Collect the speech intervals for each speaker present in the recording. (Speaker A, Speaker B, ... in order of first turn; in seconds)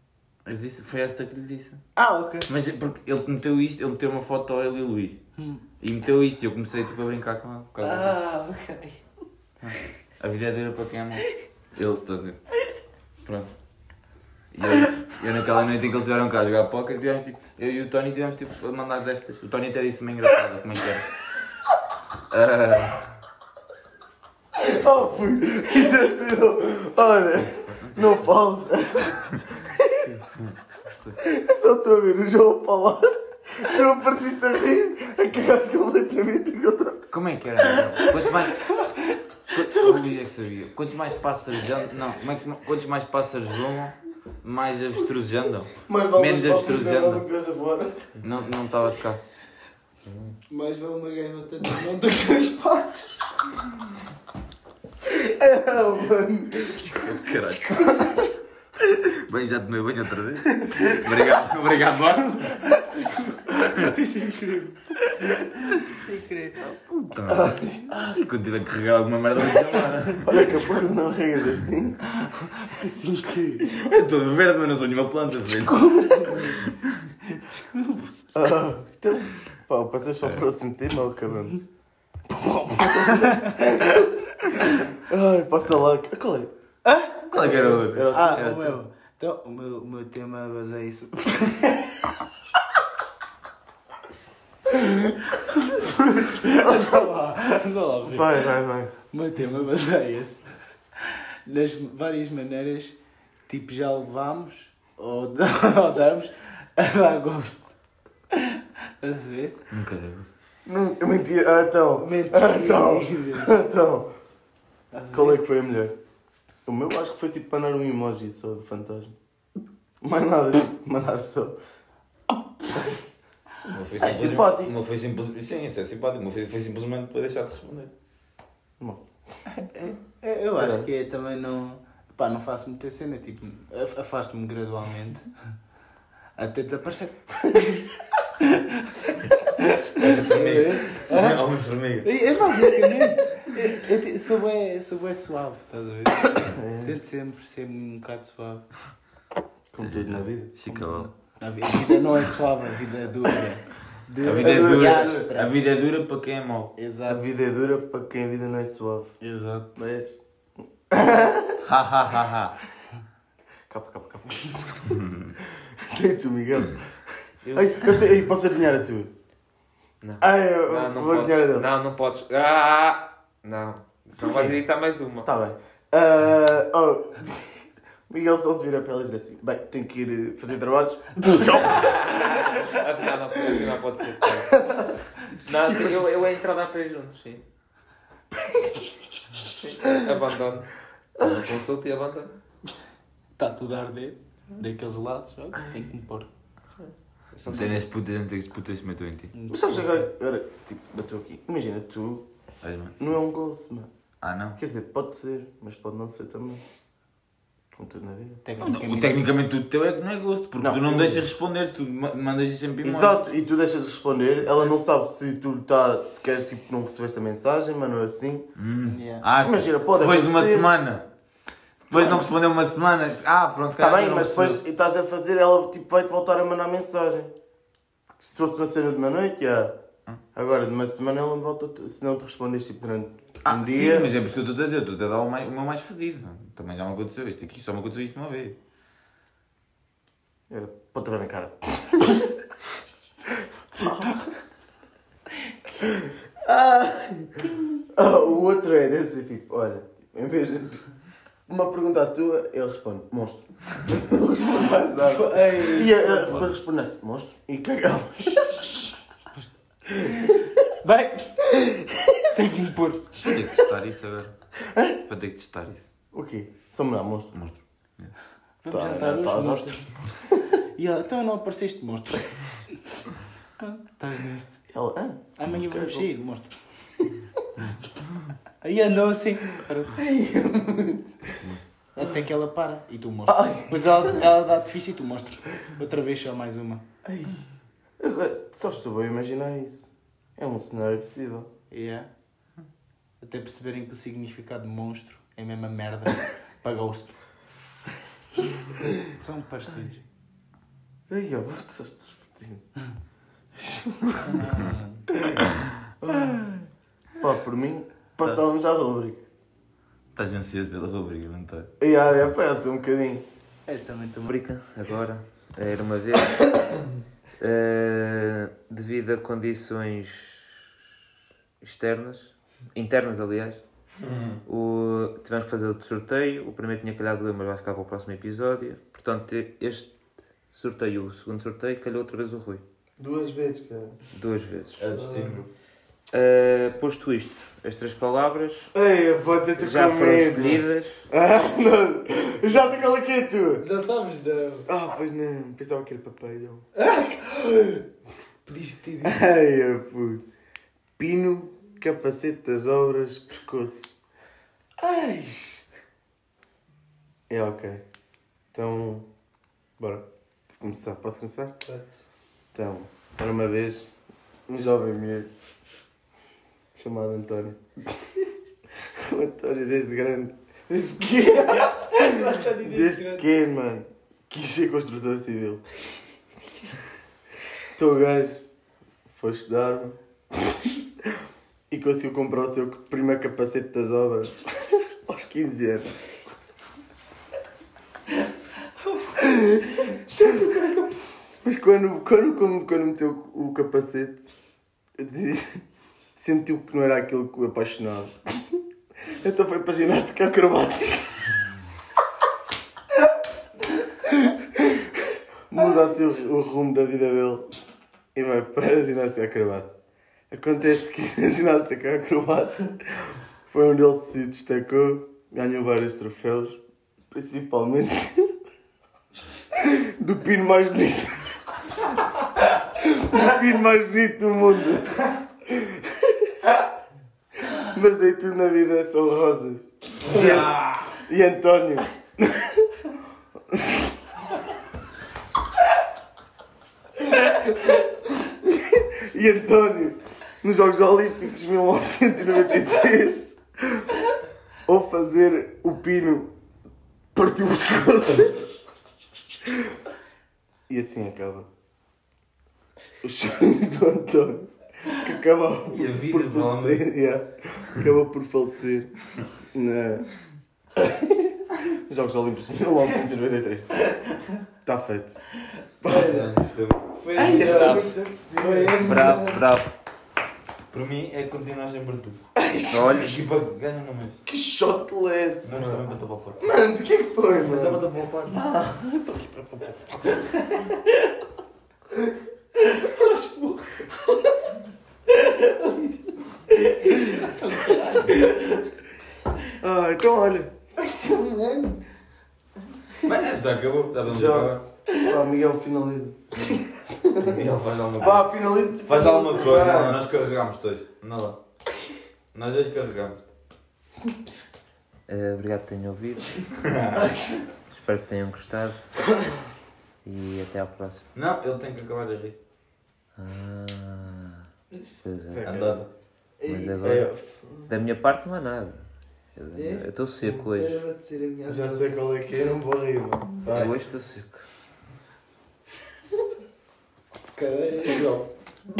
Speaker A: 0.5-1.8, 2.5-5.2, 5.8-8.2, 9.6-12.4, 13.2-13.5, 14.5-21.1, 22.3-23.1, 27.3-28.3, 30.3-31.1, 37.1-38.7, 39.5-47.2, 48.2-49.2, 57.0-58.0, 59.1-62.7, 66.6-70.7, 73.7-76.8, 87.3-88.8, 109.7-110.3, 123.7-127.9, 140.0-142.2, 149.8-151.1, 154.2-156.7, 161.7-162.6, 197.5-199.3, 202.6-203.1, 204.2-204.6, 208.6-213.2, 218.6-221.1, 221.9-224.6, 233.4-238.6, 263.2-264.3, 265.0-265.9, 267.3-268.1, 310.1-311.7, 324.0-324.4, 334.8-335.5, 430.1-430.7, 455.7-456.8, 465.9-467.0, 470.7-472.2, 472.7-474.2, 475.4-476.4, 477.4-478.4, 493.0-494.6, 497.2-501.4, 502.3-503.2, 506.7-507.0, 511.1-512.4, 515.4-515.9
Speaker B: 2.0-2.5, 5.4-5.6, 7.8-9.1, 39.6-40.0, 50.5-53.3, 63.0-66.6, 72.1-73.7, 75.7-76.6, 77.3-78.2, 83.2-83.5, 86.8-87.5, 88.1-92.0, 95.0-98.5, 99.1-100.5, 101.0-107.8, 108.3-109.6, 112.0-113.5, 114.9-115.4, 129.5-135.3, 136.4-141.4, 142.0-148.7, 150.7-155.6, 156.8-157.3, 159.2-159.7, 181.2-181.6, 193.4-196.3, 199.3-200.0, 208.4-209.3, 218.9-219.2, 254.6-256.5, 260.0-263.4, 268.6-270.1, 270.8-273.0, 273.6-274.6, 275.4-276.6, 278.6-280.0, 282.0-286.8, 291.7-292.1, 293.2-297.2, 299.1-300.0, 304.2-305.0, 313.7-314.4, 343.6-344.7, 346.8-347.8, 348.5-349.2, 371.6-373.3, 465.8-466.2, 467.0-469.4, 482.7-483.9, 485.1-486.0, 486.5-488.7, 490.8-491.8, 516.4-516.8, 519.6-521.9, 527.3-528.3
Speaker C: 24.6-30.1, 31.2-37.1, 45.9-48.1, 55.1-57.2, 57.8-58.3, 62.7-63.2, 67.3-68.2, 70.2-72.0, 78.3-81.6, 82.3-84.1, 85.0-86.5, 87.3-88.6, 98.1-98.9, 110.7-114.1, 115.1-116.0, 116.7-119.2, 120.0-121.6, 124.0-124.7, 130.6-130.9, 146.4-147.0, 149.7-150.5, 154.4-155.3, 157.1-159.2, 159.8-160.2, 160.9-161.6, 163.7-165.0, 165.9-166.9, 167.5-169.1, 170.2-171.7, 174.2-174.6, 175.2-181.9, 184.6-184.9, 191.2-191.6, 199.5-202.2, 203.0-203.9, 204.6-206.6, 207.7-208.4, 210.6-211.3, 212.8-218.5, 219.4-220.7, 221.9-222.3, 223.8-227.3, 228.2-229.8, 230.3-234.1, 240.5-242.2, 243.7-244.2, 245.8-250.8, 251.5-258.5, 264.7-265.0, 266.1-267.3, 268.7-270.4, 274.7-276.1, 279.9-281.3, 283.3-284.3, 287.1-287.4, 288.0-291.5, 301.1-302.6, 303.6-304.4, 306.0-306.5, 307.2-309.2, 311.8-313.2, 333.0-334.0, 334.9-335.4, 338.7-343.6, 344.7-346.6, 349.0-350.2, 351.0-354.0, 354.8-355.6, 357.3-357.8, 358.5-359.1, 359.8-360.1, 360.6-361.6, 362.5-363.9, 364.5-365.3, 366.8-367.6, 369.0-375.6, 377.8-378.4, 379.1-380.0, 381.7-385.9, 389.1-390.7, 391.4-394.3, 395.0-395.6, 396.2-398.2, 399.1-401.6, 404.1-404.9, 405.5-407.5, 408.1-409.7, 410.3-412.8, 413.5-416.6, 417.1-418.3, 419.6-421.3, 422.8-426.5, 427.5-432.7, 433.5-433.9, 437.1-443.9, 444.7-446.3, 447.1-448.4, 450.7-451.5, 453.0-458.9, 459.5-460.1, 460.8-463.8, 464.6-465.2, 465.8-466.2, 467.1-469.2, 472.4-473.1, 474.3-475.9, 476.4-480.0, 489.6-490.5, 494.1-497.4, 498.0-500.0, 507.0-507.4, 515.3-515.8, 516.8-517.7, 521.5-523.7
Speaker D: 50.1-50.3, 167.4-167.8, 170.0-175.3, 181.6-184.6, 185.4-187.4, 189.6-192.3, 196.8-197.8, 314.2-316.5, 317.4-320.7, 321.6-323.6, 324.4-330.0, 330.5-332.6, 334.1-334.9, 336.1-338.7, 339.6-341.1, 467.2-467.9, 468.8-469.8, 472.7-473.2, 505.1-506.4, 507.7-508.8, 510.0-511.1, 513.2-514.5, 515.0-515.5, 516.5-517.1, 517.7-518.8, 519.4-520.8, 523.5-524.5